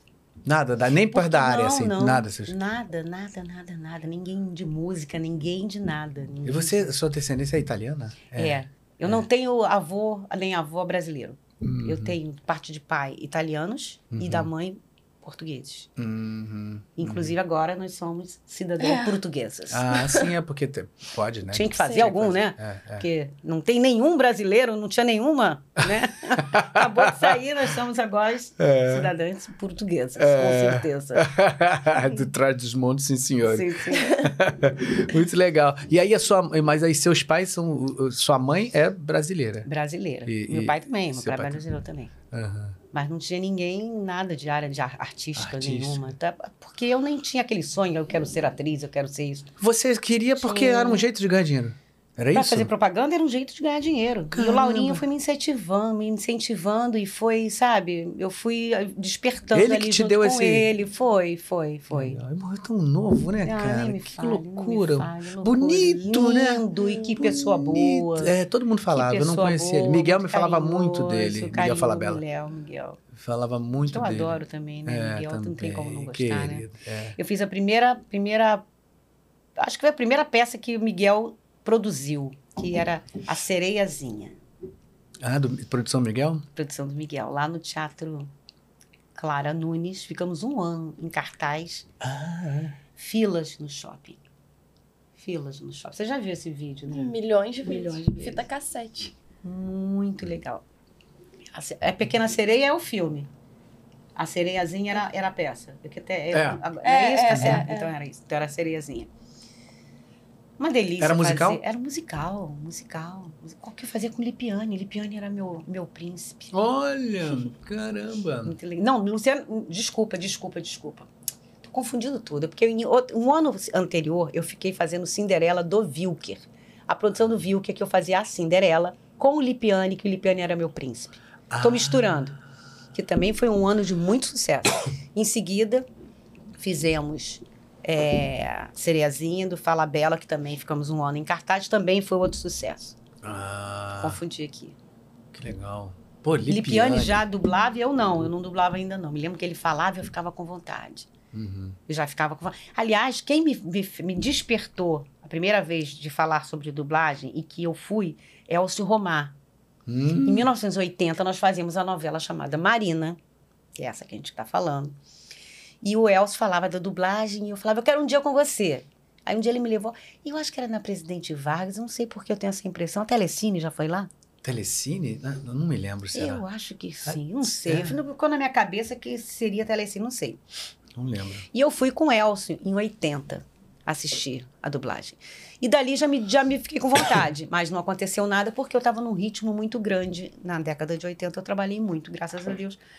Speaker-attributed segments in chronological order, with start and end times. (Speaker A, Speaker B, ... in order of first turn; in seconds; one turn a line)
Speaker A: 0.4-2.5
Speaker B: 1.1-6.9
Speaker A: 6.4-9.2
Speaker B: 8.3-15.9
Speaker A: 11.6-12.2
Speaker A: 14.1-14.5
Speaker A: 16.0-17.3
Speaker B: 17.0-20.0
Speaker C: 18.8-19.1
Speaker A: 19.7-23.1
Speaker B: 21.5-31.3
Speaker A: 26.0-27.4
Speaker A: 28.6-29.1
Speaker A: 30.2-39.7
Speaker B: 33.5-34.3
Speaker B: 39.6-42.1
Speaker A: 40.2-41.6
Speaker A: 42.3-42.8
Speaker B: 42.9-49.5
Speaker A: 45.4-46.1
Speaker A: 49.6-52.7
Speaker B: 50.4-51.0
Speaker B: 52.3-62.2
Speaker A: 54.3-55.0
Speaker A: 59.5-60.7
Speaker A: 61.9-72.2
Speaker B: 63.4-68.3
Speaker B: 68.9-73.0
Speaker A: 73.1-77.2
Speaker B: 73.8-76.7
Speaker B: 77.2-78.6
Speaker B: 79.6-84.3
Speaker A: 85.2-86.4
Speaker B: 86.5-88.3
Speaker B: 89.1-91.9
Speaker A: 92.0-92.8
Speaker B: 93.0-94.2
Speaker B: 95.2-98.5
Speaker C: 96.9-99.1
Speaker B: 99.4-100.6
Speaker B: 101.5-103.3
Speaker B: 104.2-109.1
Speaker A: 106.3-106.6
Speaker C: 106.8-107.9
Speaker A: 107.3-107.7
Speaker B: 110.6-116.6
Speaker A: 111.0-111.6
Speaker A: 116.5-118.5
Speaker B: 118.4-121.1
Speaker B: 121.6-132.3
Speaker A: 131.5-132.3
Speaker B: 132.9-135.8
Speaker B: 136.6-142.9
Speaker A: 143.2-144.2
Speaker B: 144.0-144.8
Speaker A: 145.3-147.2
Speaker B: 146.5-151.1
Speaker A: 151.3-151.8
Speaker B: 151.9-159.3
Speaker A: 159.9-160.5
Speaker B: 160.2-163.2
Speaker B: 163.8-164.9
Speaker B: 165.8-174.1
Speaker A: 174.4-176.4
Speaker B: 176.1-180.4
Speaker A: 177.1-178.0
Speaker A: 180.9-181.4
Speaker B: 181.5-192.8